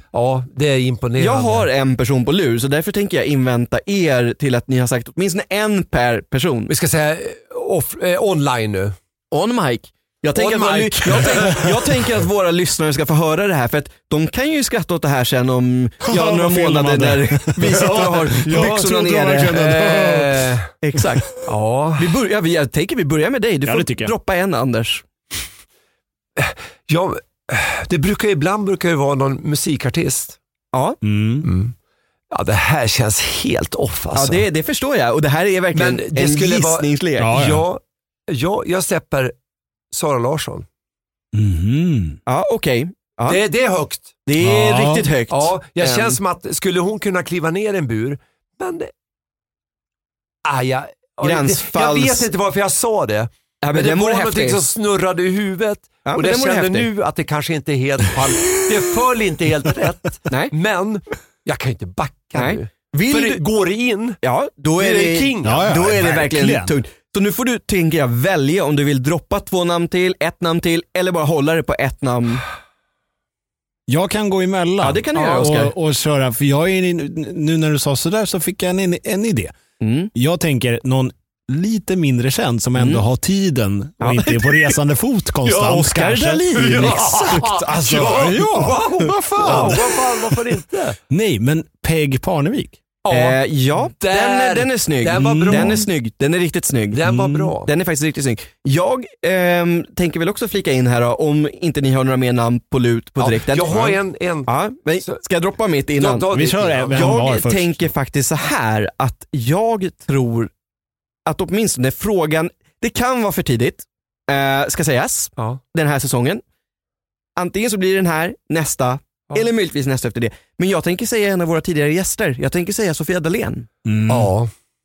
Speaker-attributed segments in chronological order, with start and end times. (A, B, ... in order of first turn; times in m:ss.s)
0:00.1-0:01.7 A
0:01.2-0:06.7 B
0:06.7-0:09.0 A
0:09.3-0:19.9 B
0:10.3-0:11.9 A
0:16.0-0:21.2 C
0:17.7-0:20.7 A
0:20.8-0:21.4 B
0:21.4-0:22.1 A
0:22.0-0:25.0 B
0:23.7-0:24.1 C
0:26.4-0:30.4 A
0:30.7-0:31.0 B
0:31.0-0:31.5 C
0:31.4-0:31.7 A
0:32.3-0:34.4 A
0:34.1-0:37.3 B
0:35.7-0:39.3 A
0:37.2-0:37.6 C
0:39.9-0:40.6 A
0:41.3-0:42.2 C
0:42.2-0:43.4 B
0:43.3-0:44.2 A
0:44.2-0:46.2 B
0:44.4-0:45.1 C
0:45.3-0:48.9 A
0:50.4-1:04.2 A
0:51.2-0:52.3 B
0:53.6-0:54.6 B
0:56.0-0:56.9 B
1:02.3-1:03.4 B
1:04.2-1:12.4 B
1:04.8-1:06.2 A
1:05.4-1:06.7 C
1:13.9-1:19.5 C
1:14.8-1:15.7 B
1:15.1-1:15.5 A
1:19.8-1:20.1 B
1:20.1-1:30.1 C
1:22.8-1:23.0 B
1:24.0-1:24.4 B
1:25.5-1:28.2 B
1:25.5-1:25.8 A
1:26.5-1:31.0 A
1:29.4-1:29.8 B
1:31.1-1:32.8 C
1:33.0-1:33.4 A
1:33.1-1:37.0 B
1:34.0-1:35.9 A
1:35.1-1:35.8 C
1:36.9-1:37.7 A
1:37.0-1:37.5 C
1:37.6-1:43.9 B
1:43.2-1:44.5 A
1:44.4-1:46.3 B
1:46.0-1:47.2 A
1:46.3-1:47.9 C
1:46.9-1:50.5 B
1:51.2-1:56.4 B
1:57.4-2:03.7 B
2:03.8-2:04.3 C
2:04.1-2:04.5 A